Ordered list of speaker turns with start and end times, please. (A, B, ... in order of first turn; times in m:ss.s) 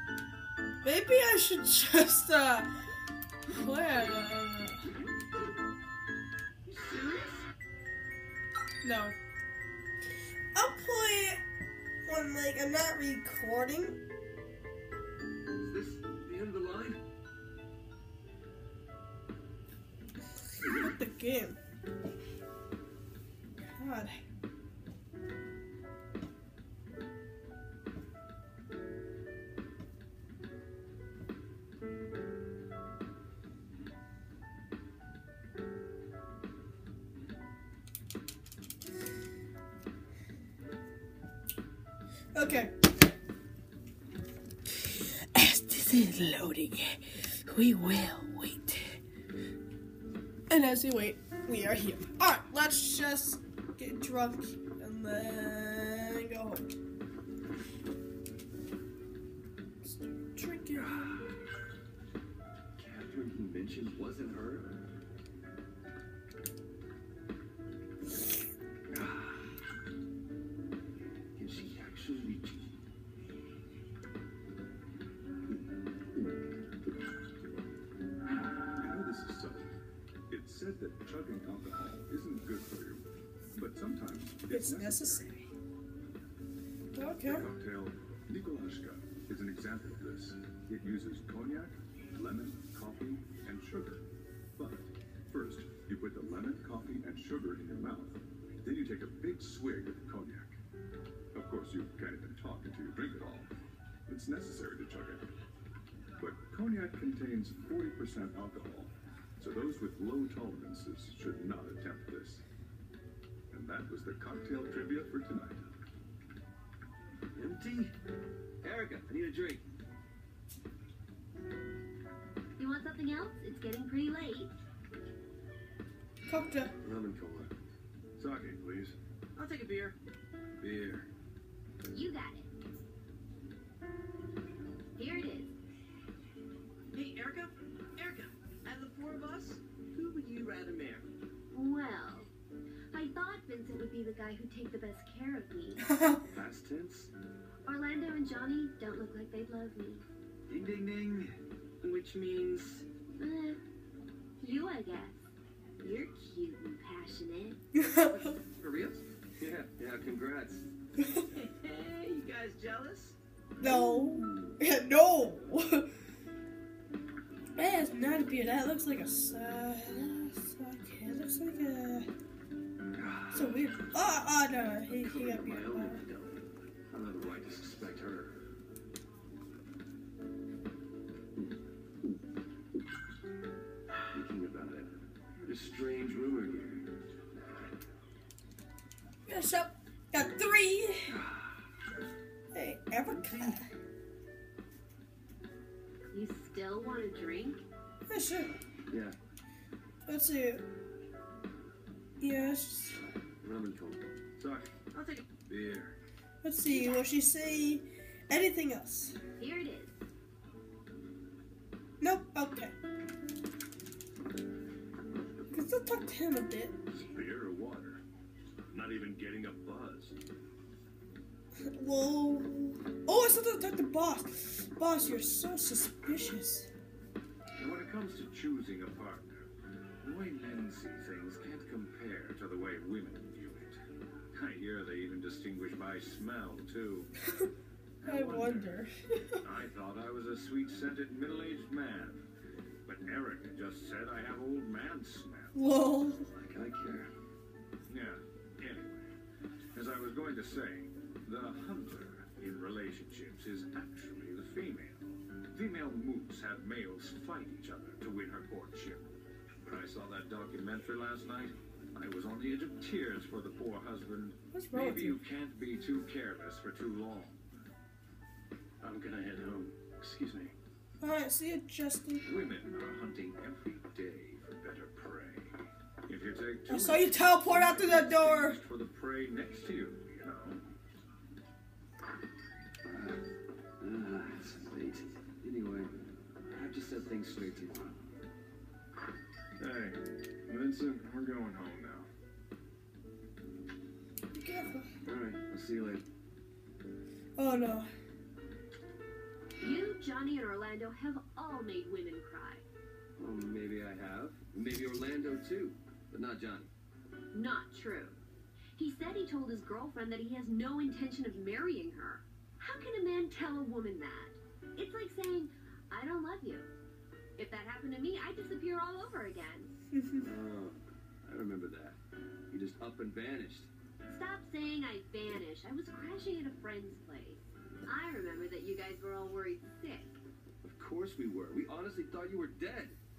0:00.8-0:02.7 A
0:03.5-0:04.9 A
0:06.6-0:07.5 B
0:08.8-0:09.2 A
0:10.5-0:11.4 A
0:12.0-0:14.0 A
0:15.6-0:17.0 B
0:20.6-0:21.6 A
0:23.7-0:24.2 A
0:42.3-0:42.7 A
0:44.7-0:49.0 A
0:50.5-0:56.7 A
0:59.8-1:01.2 A
1:00.7-1:01.2 B
1:02.8-1:04.8 B
1:08.9-1:09.4 B
1:11.3-1:12.7 B
1:18.6-1:19.7 C
1:20.3-1:25.3 C
1:24.5-1:25.4 A
1:26.9-1:27.5 A
1:27.2-1:34.0 C
1:34.6-1:40.6 C
1:41.3-1:43.5 C
1:44.1-1:45.3 C
1:46.2-1:52.4 C
1:53.5-1:55.6 C
1:57.3-1:57.9 B
1:58.6-1:59.6 B
2:02.6-2:04.5 D
2:06.3-2:06.7 A
2:06.8-2:07.5 B
2:08.2-2:09.0 C
2:09.4-2:10.0 E
2:10.6-2:11.1 C
2:11.9-2:12.5 D
2:15.0-2:15.5 D
2:16.9-2:21.0 E
2:21.5-2:22.3 D
2:22.9-2:25.8 D
2:25.8-2:26.2 A
2:26.3-2:27.1 B
2:27.6-2:30.0 D
2:30.5-2:31.3 C
2:31.8-2:32.8 E
2:33.2-2:33.6 D
2:34.4-2:37.6 D
2:37.7-2:38.4 A
2:38.0-2:39.0 E
2:39.4-2:40.7 B
2:41.0-2:41.3 A
2:41.4-2:43.2 E
2:43.6-2:45.9 A
2:43.6-2:44.6 B
2:47.6-2:52.1 A
2:53.0-2:53.6 B
2:53.3-2:56.0 A
2:54.9-2:58.4 B
3:04.1-3:07.7 B
3:09.2-3:11.2 A
3:11.1-3:11.6 B
3:12.5-3:13.7 A
3:13.1-3:13.6 B
3:16.1-3:17.6 D
3:18.1-3:18.5 A
3:18.9-3:19.2 B
3:20.0-3:20.6 A
3:22.2-3:23.0 A
3:23.4-3:24.1 B
3:24.4-3:24.7 C
3:24.9-3:25.2 E
3:25.4-3:26.0 C
3:26.4-3:29.2 A
3:26.6-3:27.1 D
3:29.4-3:29.9 D
3:32.0-3:32.7 A
3:35.5-3:36.7 A
3:36.9-3:38.0 C
3:38.7-3:40.2 C
3:41.7-3:46.7 A
3:47.6-3:49.5 C
3:50.0-3:53.8 C
3:54.3-3:57.1 C
3:58.0-3:58.7 C
3:58.0-3:59.4 A
3:59.4-4:02.2 C
4:02.8-4:05.6 C
4:05.5-4:06.3 A
4:06.3-4:07.1 B
4:07.9-4:09.1 C
4:09.7-4:19.0 C
4:19.6-4:27.4 C
4:24.5-4:25.2 A
4:28.8-4:30.5 C
4:31.0-4:32.2 A
4:32.2-4:35.5 C
4:36.0-4:40.6 C
4:36.7-4:38.6 A
4:42.8-4:43.2 B
4:43.8-4:45.9 B
4:46.5-4:48.0 B
4:49.6-4:52.1 C
4:54.3-4:54.9 A
4:55.0-4:56.0 B
4:57.4-4:57.9 A
4:59.6-5:02.6 D
5:03.2-5:06.7 B
5:07.3-5:08.2 D
5:08.8-5:16.7 D
5:17.4-5:19.7 D
5:19.9-5:20.2 A
5:20.2-5:22.0 B
5:22.5-5:23.7 B
5:24.1-5:30.2 D
5:30.6-5:33.0 B